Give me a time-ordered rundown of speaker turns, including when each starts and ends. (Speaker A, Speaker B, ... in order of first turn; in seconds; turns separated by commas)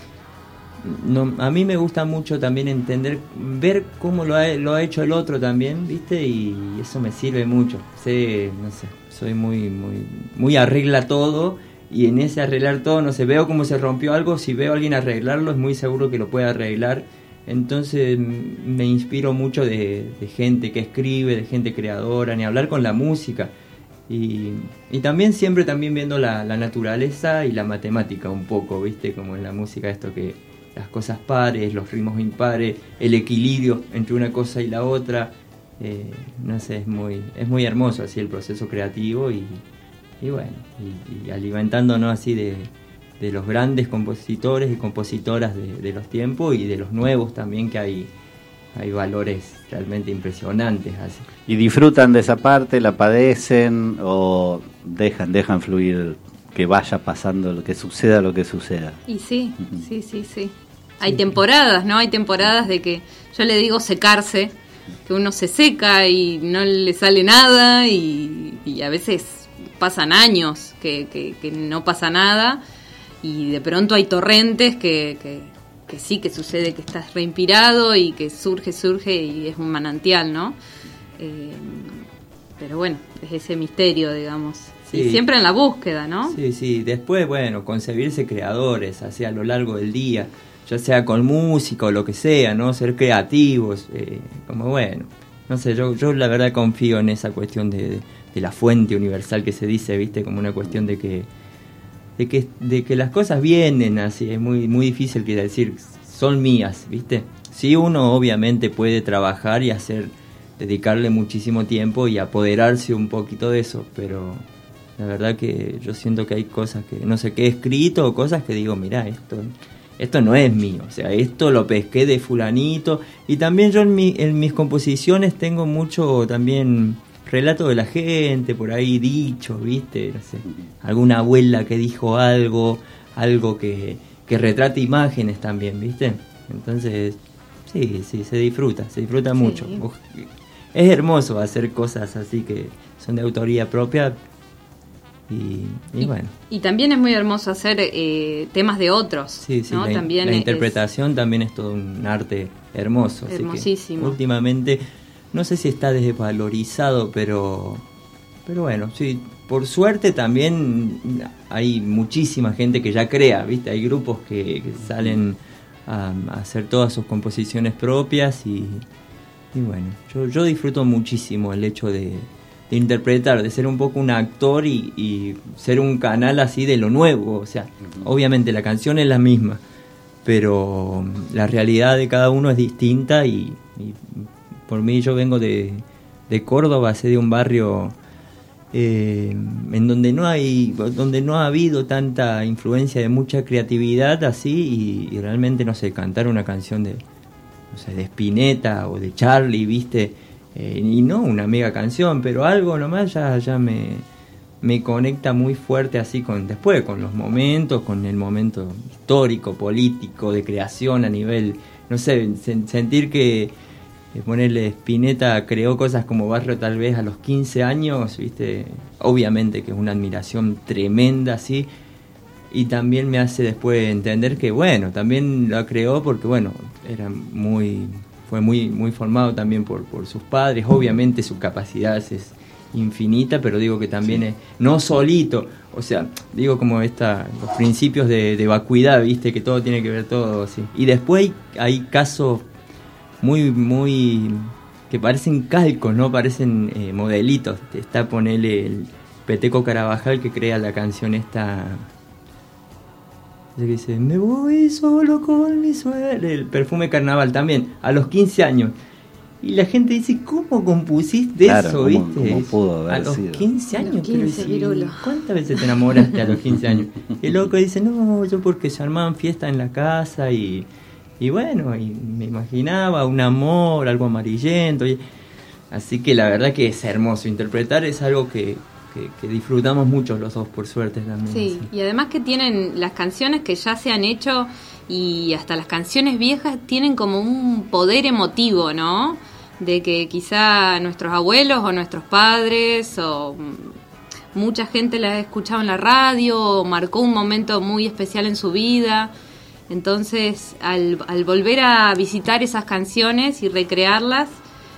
Speaker A: 0.8-23.5, Speaker A: 24.1-39.6, Speaker A: 40.2-48.1, Speaker A: 48.7-51.2, Speaker B: 51.5-59.0, Speaker C: 59.1-64.5, Speaker A: 61.0-61.4, Speaker C: 65.1-72.6, Speaker C: 73.2-80.6, Speaker C: 81.2-82.0, Speaker C: 82.6-86.4, Speaker A: 84.8-85.2, Speaker A: 86.3-101.3, Speaker A: 102.2-114.4, Speaker A: 115.0-144.2, Speaker C: 139.4-139.8, Speaker A: 145.3-146.3, Speaker C: 146.0-150.7, Speaker A: 149.4-157.8, Speaker C: 153.3-154.2, Speaker A: 158.4-168.8, Speaker A: 169.5-179.6, Speaker A: 180.2-187.9, Speaker A: 188.7-197.0, Speaker A: 197.7-204.0, Speaker A: 204.6-213.5, Speaker A: 214.1-221.7, Speaker A: 222.5-242.4, Speaker A: 243.2-251.9, Speaker A: 253.6-258.7, Speaker A: 259.4-270.7, Speaker B: 261.4-263.5, Speaker C: 263.7-264.9, Speaker A: 271.2-275.0, Speaker A: 275.7-281.7, Speaker C: 281.3-293.7, Speaker C: 294.3-299.1, Speaker C: 299.7-304.4